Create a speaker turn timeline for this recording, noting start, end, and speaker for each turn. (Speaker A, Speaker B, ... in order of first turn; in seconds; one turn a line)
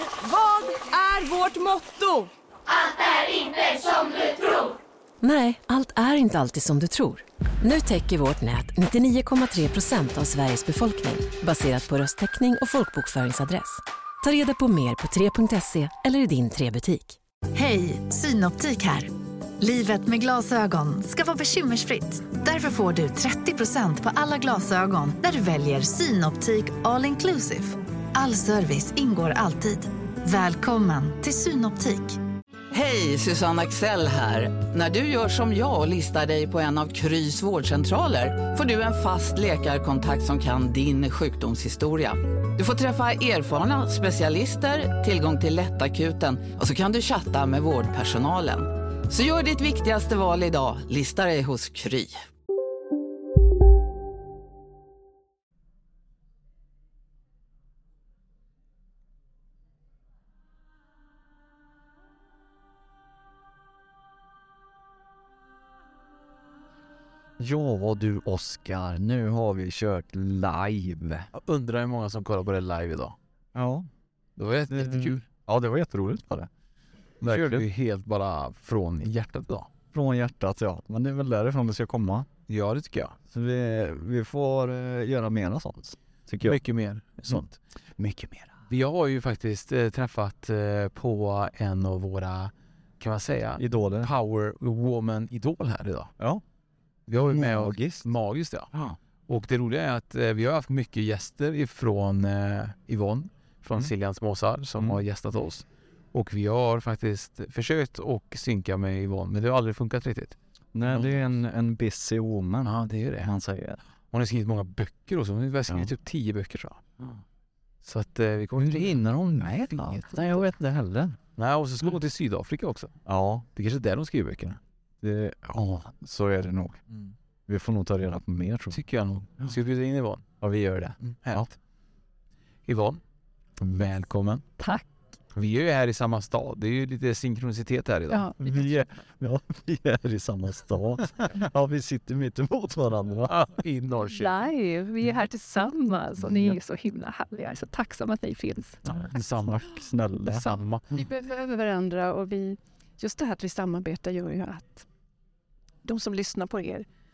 Speaker A: 0.3-2.2
Speaker B: 5.2-17.1
Speaker C: 17.5-32.2
Speaker D: 32.7-52.2
Speaker E: 67.4-71.3
Speaker F: 71.3-73.1
Speaker E: 73.5-73.9
Speaker F: 74.4-75.2
Speaker E: 74.7-76.5
Speaker F: 77.2-79.7
Speaker E: 77.2-77.7
Speaker E: 79.9-82.3
Speaker F: 82.5-83.1
Speaker E: 83.3-86.6
Speaker F: 86.4-87.5
Speaker E: 87.3-88.5
Speaker F: 88.7-96.1
Speaker E: 93.6-94.1
Speaker F: 97.1-98.7
Speaker E: 97.3-98.1
Speaker E: 98.7-99.0
Speaker F: 99.3-110.3
Speaker E: 110.7-113.8
Speaker F: 110.9-111.2
Speaker F: 112.6-113.3
Speaker F: 114.1-116.8
Speaker F: 117.8-120.4
Speaker E: 118.6-121.2
Speaker F: 121.4-122.9
Speaker E: 123.0-123.5
Speaker F: 123.5-124.6
Speaker E: 125.0-126.8
Speaker E: 127.5-128.8
Speaker F: 128.7-130.2
Speaker E: 130.4-131.5
Speaker F: 131.0-131.5
Speaker F: 132.7-133.0
Speaker F: 133.6-134.4
Speaker G: 134.6-134.9
Speaker F: 135.3-138.3
Speaker G: 138.1-138.4
Speaker E: 138.4-143.3
Speaker F: 143.3-144.3
Speaker G: 144.1-148.8
Speaker E: 148.9-150.4
Speaker F: 148.9-149.6
Speaker G: 150.3-154.9
Speaker F: 150.4-150.8
Speaker G: 155.8-156.8